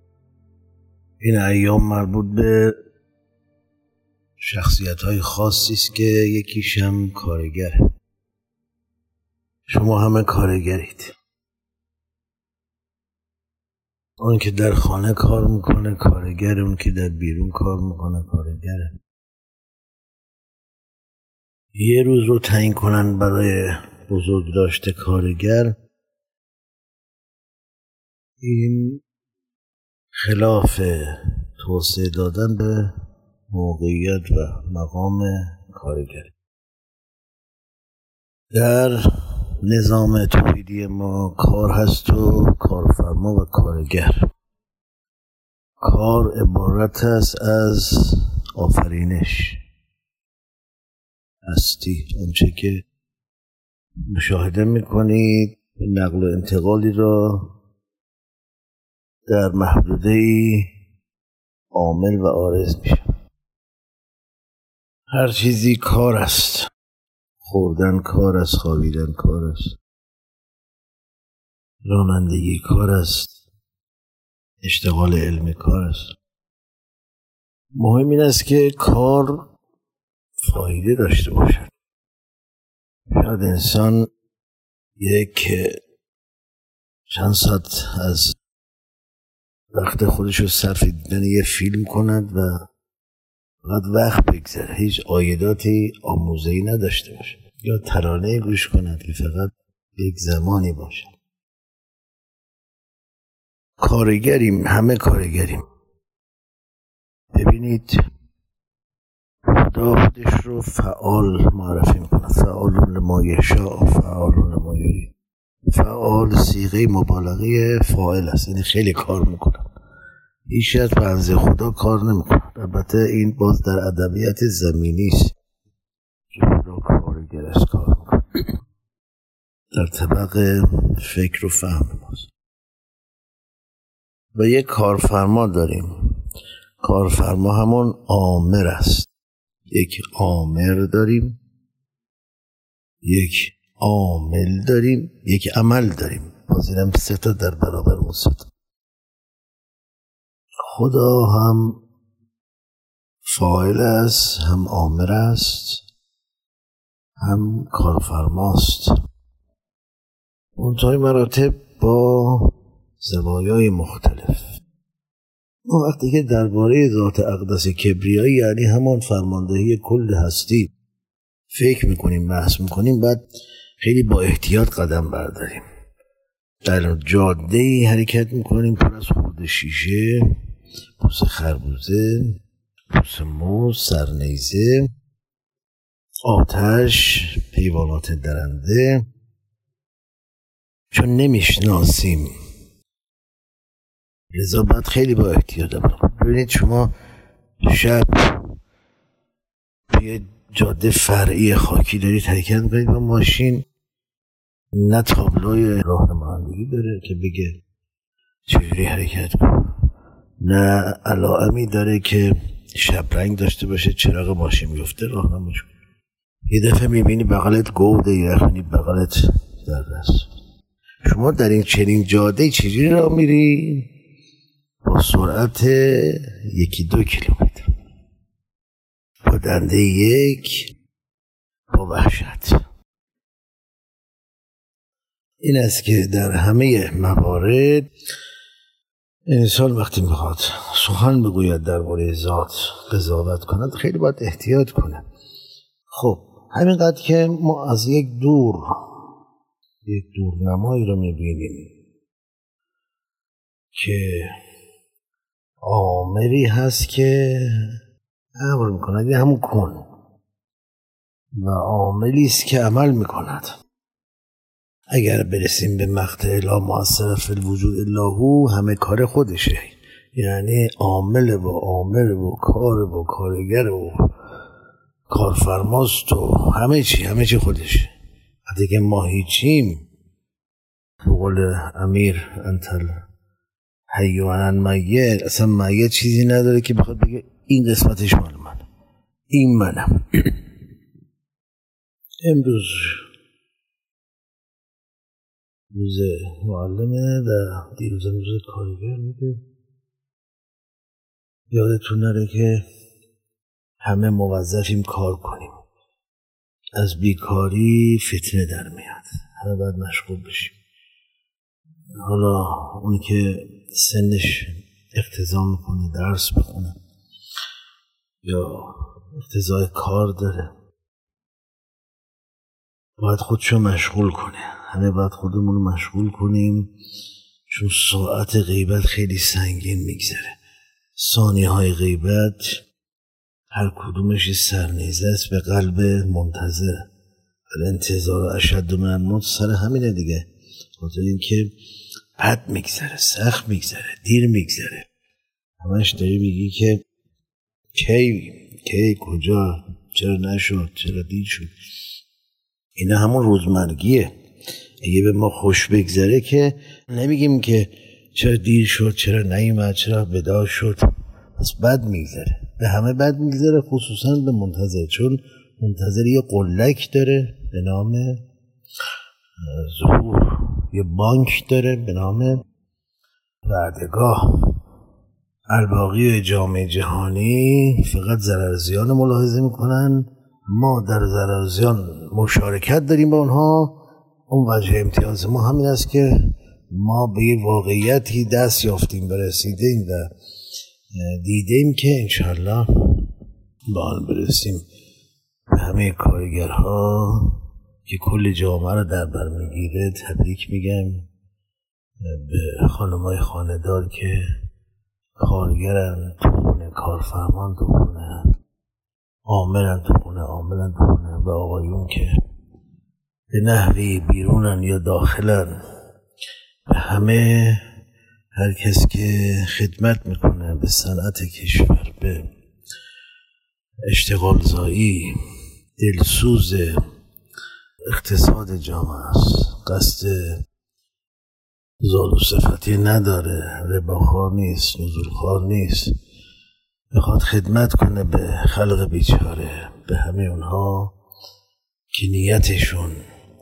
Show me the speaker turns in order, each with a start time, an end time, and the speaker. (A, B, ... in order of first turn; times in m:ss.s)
0:01.2-0:02.8 A
0:04.4-0:07.8 A
0:09.7-0:11.1 A
0:14.2-0:18.9 A
0:21.7-0:25.7 A
0:28.4-0:29.0 A
0:30.2-0:32.9 A
0:33.5-0:36.3 A
0:38.5-0:44.2 A
0:45.8-0:49.6 A
0:51.4-0:52.8 A
0:54.1-0:57.5 A
0:59.3-1:00.7 A
1:01.7-1:03.1 A
1:05.1-1:06.7 A
1:07.4-1:09.8 A
1:11.8-1:13.4 A
1:14.6-1:16.1 A
1:17.8-1:19.5 A
1:20.4-1:21.7 A
1:23.1-1:24.1 A
1:25.0-1:25.8 A
1:27.1-1:28.4 A
1:29.7-1:32.5 A
1:33.6-1:41.1 A
1:43.8-1:45.6 A
1:47.3-1:48.0 A
1:49.5-1:55.1 A
1:55.7-1:59.7 A
2:00.5-2:05.3 A
2:06.3-2:08.4 A
2:09.7-2:12.3 A
2:14.3-2:16.1 A
2:16.8-2:19.1 A
2:19.7-2:21.4 A
2:23.0-2:28.5 A
2:30.6-2:31.8 A
2:33.2-2:35.8 A
2:37.2-2:39.0 A
2:40.6-2:44.5 A
2:45.7-2:50.7 A
2:51.5-2:53.2 A
2:53.8-2:55.6 A
2:56.6-3:00.3 A
3:01.0-3:02.4 A
3:02.9-3:04.9 A
3:06.2-3:09.0 A
3:10.9-3:12.3 A
3:14.3-3:16.9 A
3:17.6-3:18.6 A
3:19.9-3:23.6 A
3:24.7-3:27.6 A
3:28.5-3:29.7 A
3:30.4-3:35.7 A
3:36.5-3:40.3 A
3:41.0-3:43.9 A
3:44.8-3:47.7 A
3:49.2-3:50.7 A
3:51.7-3:52.6 A
3:55.4-3:57.9 A
3:59.3-4:05.0 A
4:05.9-4:08.7 A
4:09.8-4:11.7 A
4:13.7-4:14.3 A
4:15.6-4:17.8 A
4:18.4-4:19.8 A
4:21.4-4:23.5 A
4:24.9-4:34.1 A
4:35.1-4:37.9 A
4:38.5-4:39.8 A
4:41.0-4:42.9 A
4:43.9-4:48.6 A
4:49.3-4:50.4 A
4:52.2-4:53.0 A
4:55.7-4:59.4 A
5:01.5-5:02.6 A
5:03.8-5:05.6 A
5:06.8-5:10.6 A
5:11.9-5:16.8 A
5:18.2-5:20.5 A
5:23.0-5:26.7 A
5:27.5-5:30.4 A
5:31.0-5:32.6 A
5:33.5-5:36.8 A
5:37.5-5:40.2 A
5:40.8-5:41.5 A
5:42.2-5:44.9 A
5:45.6-5:46.8 A
5:47.7-5:51.5 A
5:52.8-5:54.1 A
5:54.8-6:08.2 A
6:09.4-6:12.4 A
6:13.4-6:14.6 A
6:15.5-6:23.8 A
6:24.3-6:30.1 A
6:30.9-6:33.0 A
6:33.7-6:34.6 A
6:35.5-6:41.0 A
6:42.0-6:44.2 A
6:45.2-6:48.2 A
6:49.3-6:52.1 A
6:53.3-6:55.5 A
6:56.7-6:57.6 A
6:58.3-7:02.2 A
7:03.9-7:05.2 A
7:05.8-7:06.8 A
7:07.9-7:10.4 A
7:11.8-7:15.9 A
7:16.9-7:20.9 A
7:21.9-7:23.0 A